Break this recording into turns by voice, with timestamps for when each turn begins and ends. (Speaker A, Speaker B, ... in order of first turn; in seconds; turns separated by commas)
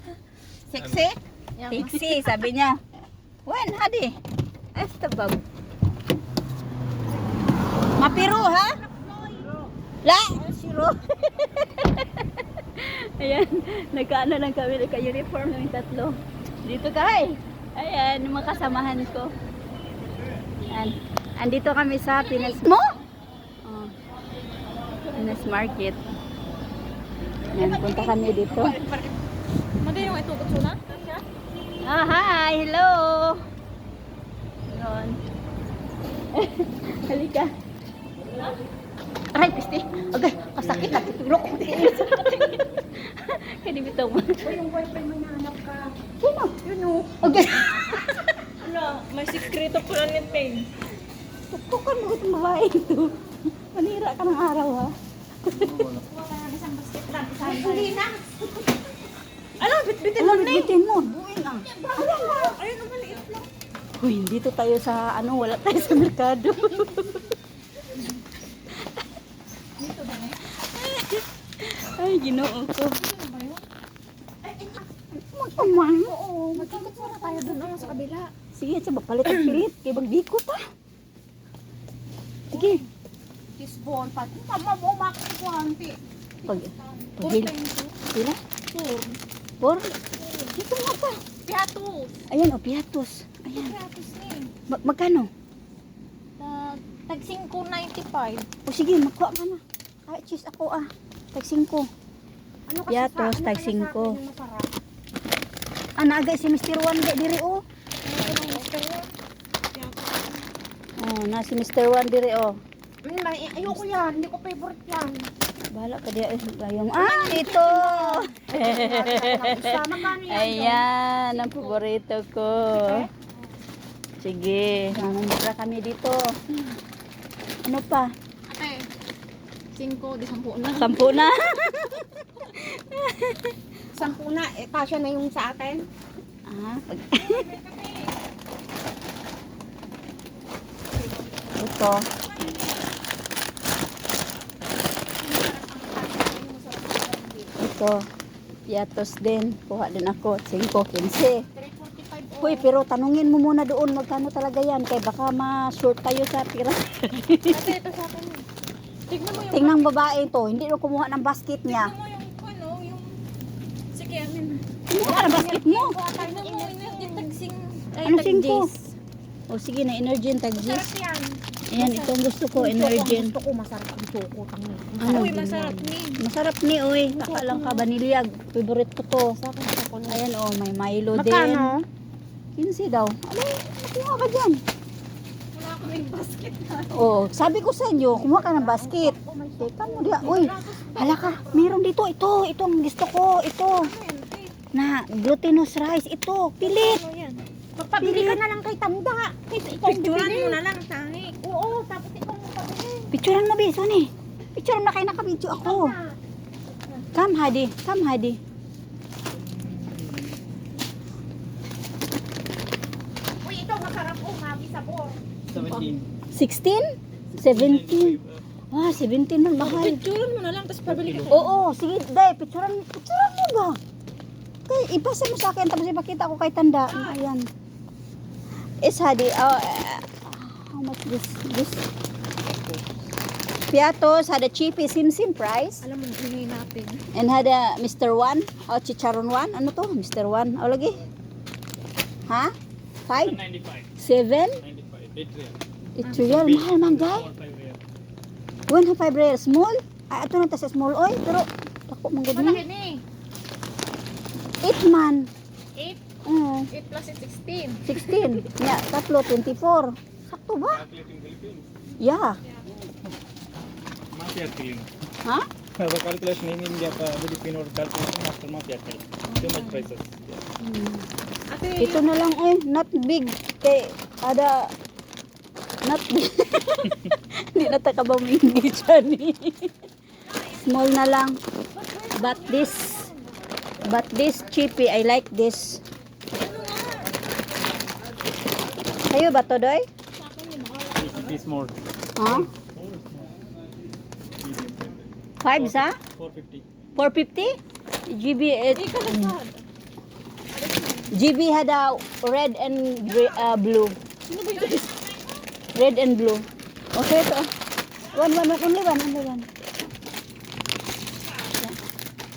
Speaker A: 0.7-1.2, Speaker B: 1.6-2.4, Speaker C: 1.7-2.8, Speaker C: 3.5-4.2, Speaker C: 4.7-5.4, Speaker C: 8.0-8.8, Speaker A: 8.2-9.5, Speaker B: 9.1-9.5, Speaker C: 10.0-19.3, Speaker C: 20.7-22.9, Speaker B: 22.1-22.6, Speaker C: 23.6-23.9, Speaker C: 25.1-26.1, Speaker C: 27.5-28.8, Speaker A: 27.5-29.1, Speaker B: 29.8-31.2, Speaker C: 31.8-33.4, Speaker C: 34.7-35.2, Speaker C: 36.3-37.5, Speaker C: 39.3-44.6, Speaker A: 40.6-41.9, Speaker A: 44.4-46.0, Speaker C: 46.2-47.9, Speaker B: 48.6-50.7, Speaker C: 51.5-53.1, Speaker C: 53.7-54.9, Speaker C: 55.5-55.9, Speaker B: 55.9-58.0, Speaker A: 57.3-58.7, Speaker B: 59.6-60.5, Speaker A: 60.1-60.7, Speaker C: 60.2-62.6, Speaker A: 61.7-63.4, Speaker B: 62.5-63.4, Speaker C: 64.0-67.3, Speaker B: 69.8-70.4, Speaker C: 70.7-73.0, Speaker B: 72.9-73.6, Speaker A: 74.4-74.8, Speaker C: 75.1-76.1, Speaker A: 75.6-78.1, Speaker B: 76.5-78.3, Speaker C: 78.5-80.6, Speaker C: 82.5-82.8, Speaker B: 82.5-82.9, Speaker A: 83.6-87.1, Speaker C: 86.5-87.5, Speaker B: 87.0-87.9, Speaker C: 88.1-88.4, Speaker B: 88.7-89.2, Speaker C: 89.6-91.2, Speaker B: 91.5-92.2, Speaker C: 92.3-93.7, Speaker B: 93.5-94.5, Speaker C: 94.7-95.3, Speaker B: 96.4-98.5, Speaker C: 98.7-101.9, Speaker A: 102.7-104.7, Speaker C: 102.9-104.2, Speaker C: 106.0-107.6, Speaker B: 108.0-109.1, Speaker A: 108.2-108.7, Speaker A: 109.7-110.4, Speaker C: 111.0-112.6, Speaker A: 113.0-115.3, Speaker C: 115.7-123.1, Speaker A: 117.0-120.8, Speaker B: 121.3-121.8, Speaker A: 122.7-123.1, Speaker C: 124.2-126.4, Speaker C: 127.6-128.1, Speaker B: 128.5-128.8, Speaker B: 129.7-131.2, Speaker C: 130.7-133.6, Speaker A: 133.9-135.9, Speaker C: 136.5-137.5, Speaker B: 137.2-138.1, Speaker A: 141.0-141.6, Speaker C: 141.6-142.1, Speaker B: 142.2-142.8, Speaker A: 145.0-147.5, Speaker C: 147.6-148.0, Speaker C: 148.7-151.4, Speaker A: 151.5-152.6, Speaker C: 152.4-157.7, Speaker B: 157.5-158.5, Speaker B: 159.1-159.9, Speaker C: 159.5-161.9, Speaker B: 161.7-163.2, Speaker B: 163.9-164.6, Speaker C: 164.9-166.0, Speaker A: 165.0-167.3, Speaker B: 166.1-169.0, Speaker C: 168.0-168.7, Speaker C: 169.5-170.9, Speaker B: 170.6-171.4, Speaker C: 171.7-173.3, Speaker A: 171.8-175.5, Speaker C: 175.0-179.4, Speaker B: 175.1-176.2, Speaker A: 177.1-177.8, Speaker A: 179.3-180.2, Speaker C: 180.1-181.8, Speaker A: 181.1-181.8, Speaker C: 182.5-184.6, Speaker B: 185.5-187.2, Speaker C: 186.9-193.9, Speaker A: 188.1-190.7, Speaker B: 190.2-191.7, Speaker B: 193.8-194.5, Speaker C: 194.7-197.0, Speaker B: 196.6-197.4, Speaker A: 197.8-203.1, Speaker C: 198.0-198.4, Speaker B: 199.5-200.6, Speaker C: 203.1-206.0, Speaker A: 205.6-206.2, Speaker C: 207.2-208.4, Speaker D: 209.3-210.3, Speaker A: 213.4-215.2, Speaker D: 215.5-216.1, Speaker B: 215.5-216.0, Speaker C: 216.3-218.2, Speaker D: 217.3-218.4, Speaker C: 218.7-220.0, Speaker B: 219.6-221.5, Speaker D: 220.8-221.3, Speaker C: 221.3-223.8, Speaker C: 224.7-227.5, Speaker B: 226.9-227.2, Speaker C: 228.8-231.8, Speaker C: 233.7-235.8, Speaker B: 235.8-237.0, Speaker C: 237.1-241.0, Speaker C: 242.3-242.5, Speaker C: 243.1-243.4, Speaker D: 243.1-243.9, Speaker C: 244.0-244.6, Speaker D: 244.6-247.8, Speaker C: 246.0-247.3, Speaker C: 248.7-252.7, Speaker B: 252.3-253.0, Speaker C: 254.6-255.3, Speaker C: 256.2-256.7, Speaker B: 256.7-258.4, Speaker C: 257.9-260.8, Speaker D: 260.7-261.7, Speaker C: 262.0-262.4, Speaker D: 264.1-264.9, Speaker D: 265.8-270.4, Speaker B: 269.3-269.9, Speaker C: 270.6-271.1, Speaker B: 271.5-272.0, Speaker C: 271.8-274.7, Speaker C: 275.8-279.8, Speaker C: 280.5-281.4, Speaker B: 281.8-283.1, Speaker C: 282.1-283.1, Speaker C: 283.9-285.8, Speaker B: 286.4-287.1, Speaker C: 289.1-289.9, Speaker B: 290.1-291.3, Speaker D: 291.0-293.3, Speaker C: 292.1-292.5, Speaker D: 294.4-296.6, Speaker C: 295.4-296.0, Speaker C: 297.0-299.4, Speaker B: 298.7-299.6, Speaker B: 300.5-301.1, Speaker C: 301.1-304.8, Speaker A: 303.1-303.4, Speaker B: 304.3-305.4, Speaker C: 305.8-307.5, Speaker C: 308.1-309.5